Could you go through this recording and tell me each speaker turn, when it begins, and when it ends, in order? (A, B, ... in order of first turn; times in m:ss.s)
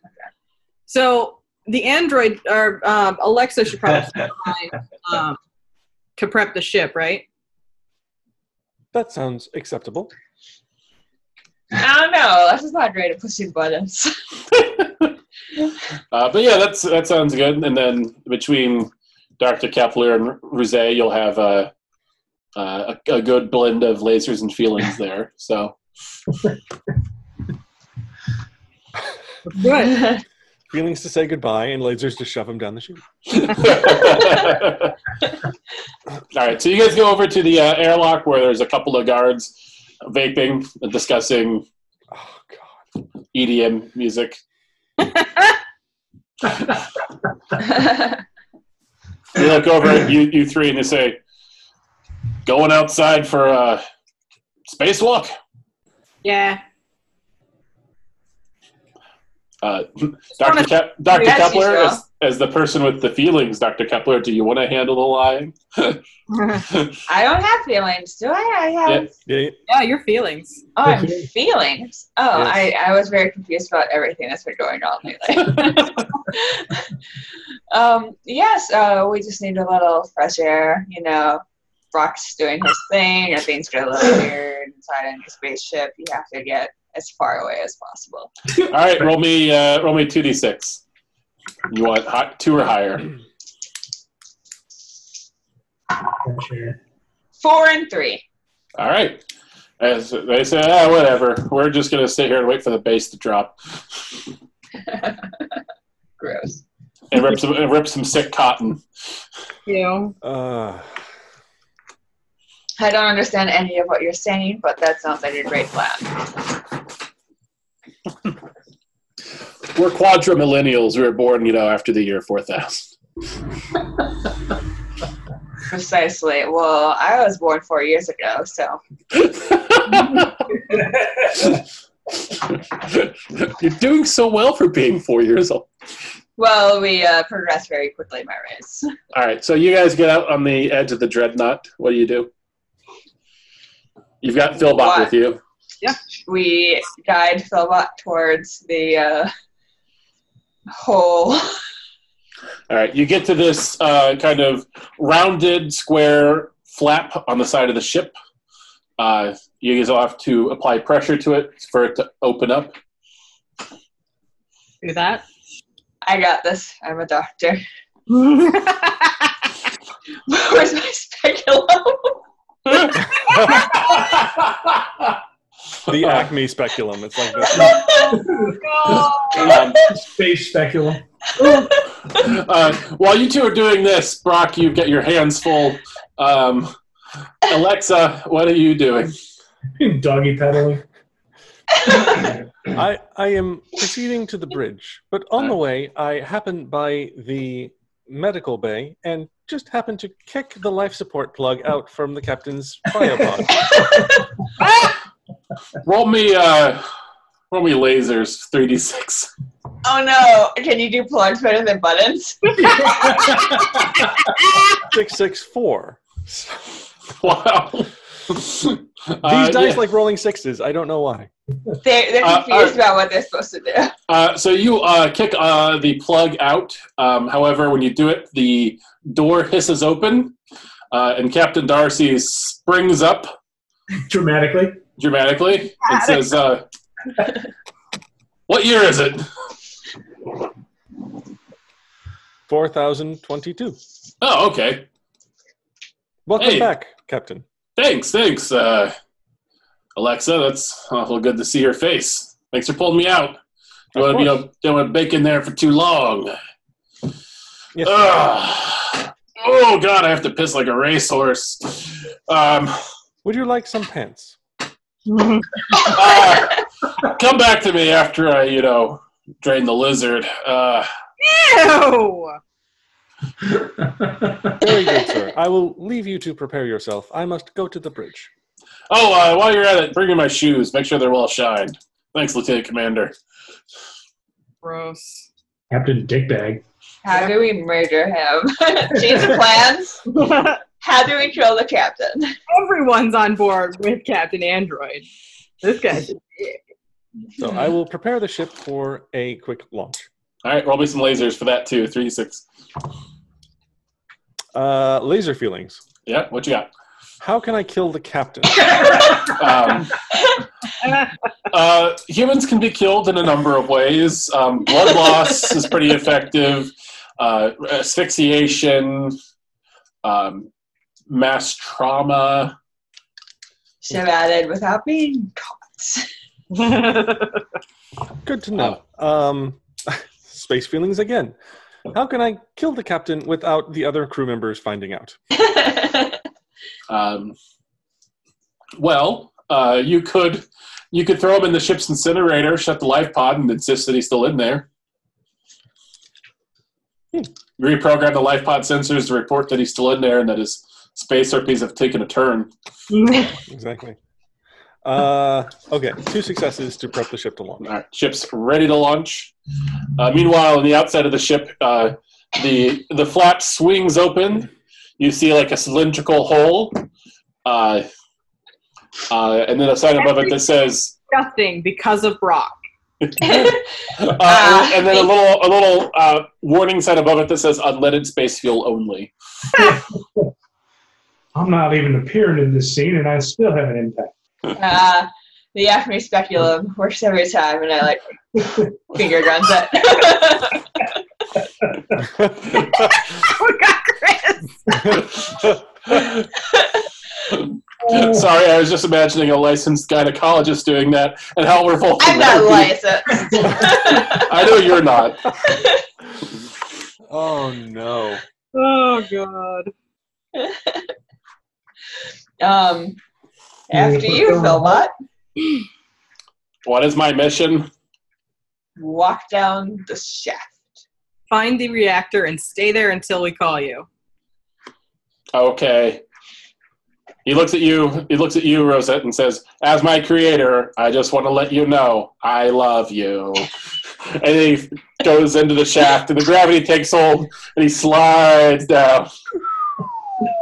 0:00.9-0:05.4 A
0:06.2-0:07.2 A
0:08.9-0:10.1 B
0:11.7-0:14.1 C
0:14.6-0:15.1 D
0:16.1-0:21.7 D
0:22.6-0:25.8 D
0:29.5-0:30.1 A
0:30.7-0:34.4 B
0:33.3-0:34.9 D
0:36.3-0:41.6 D
0:42.1-0:42.8 B
0:43.3-0:44.4 D
0:45.0-0:45.6 A
0:47.7-0:48.2 C
0:49.3-0:51.2 D
0:52.4-0:53.8 D
0:54.7-0:55.3 D
0:56.2-0:56.6 A
0:59.6-1:06.0 D
1:00.4-1:01.4 A
1:01.1-1:02.0 C
1:06.3-1:06.6 A
1:06.6-1:07.0 D
1:07.1-1:09.2 C
1:09.2-1:09.6 B
1:09.7-1:10.6 A
1:10.8-1:16.9 C
1:10.8-1:11.2 E
1:12.3-1:12.6 B
1:17.7-1:21.4 C
1:21.9-1:28.3 C
1:28.6-1:30.8 D
1:31.7-1:33.1 D
1:36.2-1:36.8 E
1:37.4-1:38.2 C
1:38.8-1:39.2 D
1:39.8-1:43.5 D
1:44.9-1:45.3 C
1:46.2-1:46.6 C
1:47.1-1:48.8 D
1:49.7-1:50.1 A
1:50.2-1:50.9 B
1:52.8-1:56.3 C
1:59.7-2:02.9 D
2:05.7-2:08.8 C
2:09.1-2:10.4 D
2:12.3-2:15.7 D
2:16.4-2:18.9 C
2:19.1-2:22.3 D
2:24.2-2:25.4 D
2:24.6-2:25.1 C
2:26.2-2:29.3 C
2:30.7-2:31.5 C
2:32.7-2:38.1 D
2:39.0-2:42.7 D
2:44.8-2:45.2 A
2:46.0-2:47.6 C
2:48.1-2:49.1 A
2:50.3-2:52.2 C
2:53.2-2:53.7 B
2:53.2-2:54.0 C
2:54.1-2:54.9 E
2:55.9-2:57.9 B
2:55.9-2:56.3 D
2:57.5-2:58.2 C
2:57.6-2:58.6 E
2:57.6-2:59.5 A
2:59.3-3:01.0 E
2:59.3-2:59.9 D
3:01.4-3:01.8 C
3:02.1-3:06.7 D
3:07.4-3:09.1 D
3:09.8-3:10.8 E
3:12.6-3:23.7 B
3:23.5-3:24.3 C
3:25.8-3:26.8 D
3:27.5-3:29.3 D
3:29.8-3:33.2 C
3:32.8-3:33.6 E
3:32.9-3:33.3 A
3:34.7-3:36.8 B
3:37.2-3:39.8 D
3:39.2-3:41.3 B
3:41.8-3:43.9 C
3:42.2-3:42.8 D
3:44.1-3:50.3 D
3:50.9-3:53.3 D
3:54.0-3:54.8 E
3:55.0-3:56.6 D
3:55.9-3:56.2 A
3:58.5-3:59.3 D
4:02.5-4:03.8 B
4:04.2-4:04.8 D
4:06.2-4:07.4 B
4:06.4-4:06.7 D
4:07.8-4:08.9 D
4:10.0-4:13.4 D
4:13.9-4:14.4 B
4:13.9-4:16.3 D
4:17.7-4:18.1 B
4:17.8-4:22.8 D
4:23.2-4:24.4 B
4:25.1-4:25.5 A
4:25.7-4:30.9 D
4:31.2-4:32.4 A
4:33.6-4:34.5 E
4:34.5-4:38.3 B
4:38.9-4:43.1 D
4:44.6-4:45.3 A
4:45.7-4:46.6 E
4:47.0-4:50.0 C
4:50.1-4:50.6 A
4:50.8-4:52.3 C
4:52.5-4:55.0 A
4:55.6-4:56.6 A
4:57.4-5:00.0 B
5:00.4-5:02.4 D
5:04.5-5:05.8 B
5:06.0-5:06.7 D
5:07.2-5:09.3 B
5:09.2-5:10.0 D
5:11.5-5:19.2 D
5:20.0-5:20.5 D
5:21.1-5:22.5 D
5:23.8-5:26.1 C
5:26.5-5:27.4 A
5:28.2-5:31.3 B
5:31.9-5:35.2 B
5:35.4-5:36.2 C
5:36.9-5:37.4 D
5:38.8-5:44.6 D
5:47.6-5:52.5 D
5:52.9-5:53.4 A
5:53.5-5:54.0 B
5:54.8-5:57.7 B
5:57.6-5:59.3 D
6:00.0-6:04.5 D
6:05.0-6:06.8 D
6:07.4-6:07.9 D
6:09.1-6:10.9 D
6:10.0-6:10.4 A
6:11.1-6:12.6 A
6:13.0-6:19.1 D
6:13.2-6:15.1 C
6:19.5-6:20.3 E
6:21.3-6:24.1 E
6:24.5-6:30.8 C
6:32.0-6:32.4 B
6:32.7-6:34.8 A
6:34.7-6:35.5 B
6:34.9-6:36.3 D
6:37.3-6:42.8 D
6:42.0-6:44.3 C
6:43.9-6:45.2 D
6:45.4-6:45.8 C
6:47.1-6:48.2 B
6:48.5-6:49.7 A
6:50.3-6:50.9 C
6:52.4-6:53.0 C
6:53.7-6:54.9 C
6:53.7-6:54.8 E
6:56.6-6:57.7 D
6:58.8-7:00.6 C
7:01.3-7:03.9 A
7:05.3-7:06.0 D
7:07.2-7:13.5 D
7:14.1-7:19.1 D